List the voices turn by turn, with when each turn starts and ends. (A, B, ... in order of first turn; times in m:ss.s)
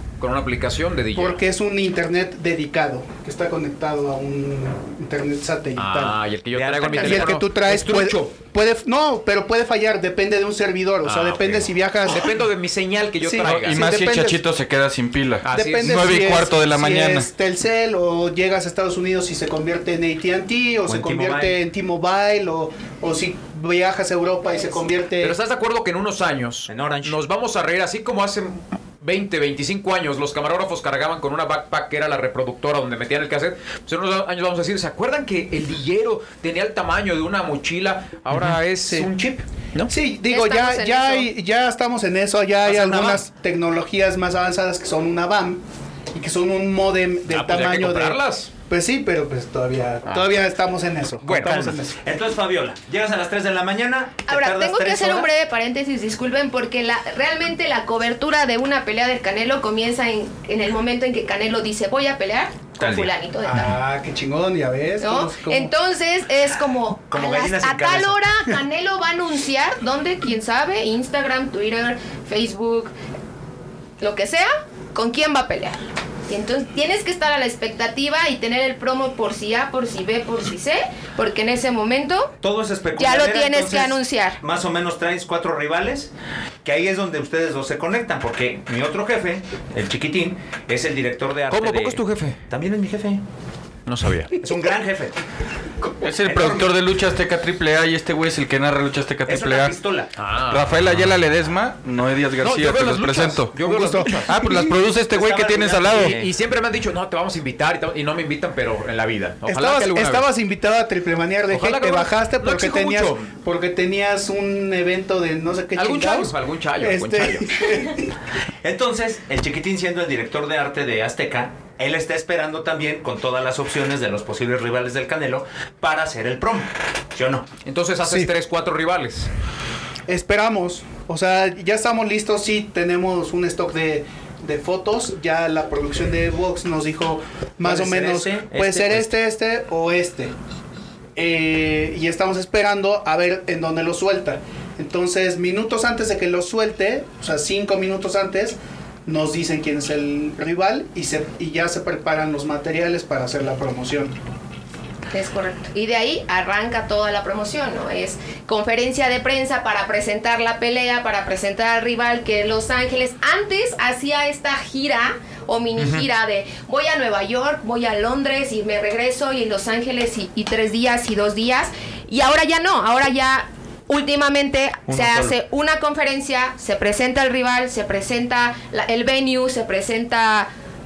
0:00.2-0:01.4 A
0:01.2-0:06.2 B
0:05.8-0:08.3 A
0:06.5-0:07.4 C
0:06.9-0:12.4 B
0:11.0-0:13.9 A
0:13.2-0:14.4 B
0:13.4-0:17.3 D
0:15.4-0:16.1 A
0:15.5-0:25.4 B
0:20.9-0:21.6 C
0:25.2-0:39.9 A
0:26.7-0:27.2 C
0:39.9-0:45.6 B
0:40.3-0:41.3 E
0:42.7-0:43.2 A
0:46.1-0:52.0 B
0:47.3-0:48.5 A
0:50.1-0:50.3 A
0:51.2-0:51.8 A
0:51.4-0:55.3 C
0:54.3-1:03.8 E
1:02.8-1:03.1 C
1:03.4-1:05.7 B
1:05.0-1:12.9 E
1:07.1-1:08.2 C
1:14.0-1:22.3 E
1:22.4-1:26.1 C
1:23.0-1:24.4 E
1:26.6-1:33.2 C
1:31.5-1:32.4 A
1:33.9-1:34.4 A
1:34.4-1:35.2 C
1:35.8-1:39.8 D
1:36.2-1:36.7 C
1:39.3-1:40.1 C
1:40.2-1:41.2 A
1:40.5-1:43.6 D
1:42.4-1:44.4 A
1:43.6-1:44.7 B
1:44.2-1:46.2 D
1:45.1-1:46.3 C
1:46.0-1:50.3 A
1:49.5-1:58.1 B
1:51.5-1:53.3 A
1:55.8-1:57.8 A
1:58.6-2:07.5 C
2:07.6-2:09.3 A
2:08.0-2:08.3 B
2:10.1-2:20.3 B
2:17.6-2:19.1 C
2:21.2-2:34.2 B
2:35.1-3:00.5 E
2:54.9-2:55.4 C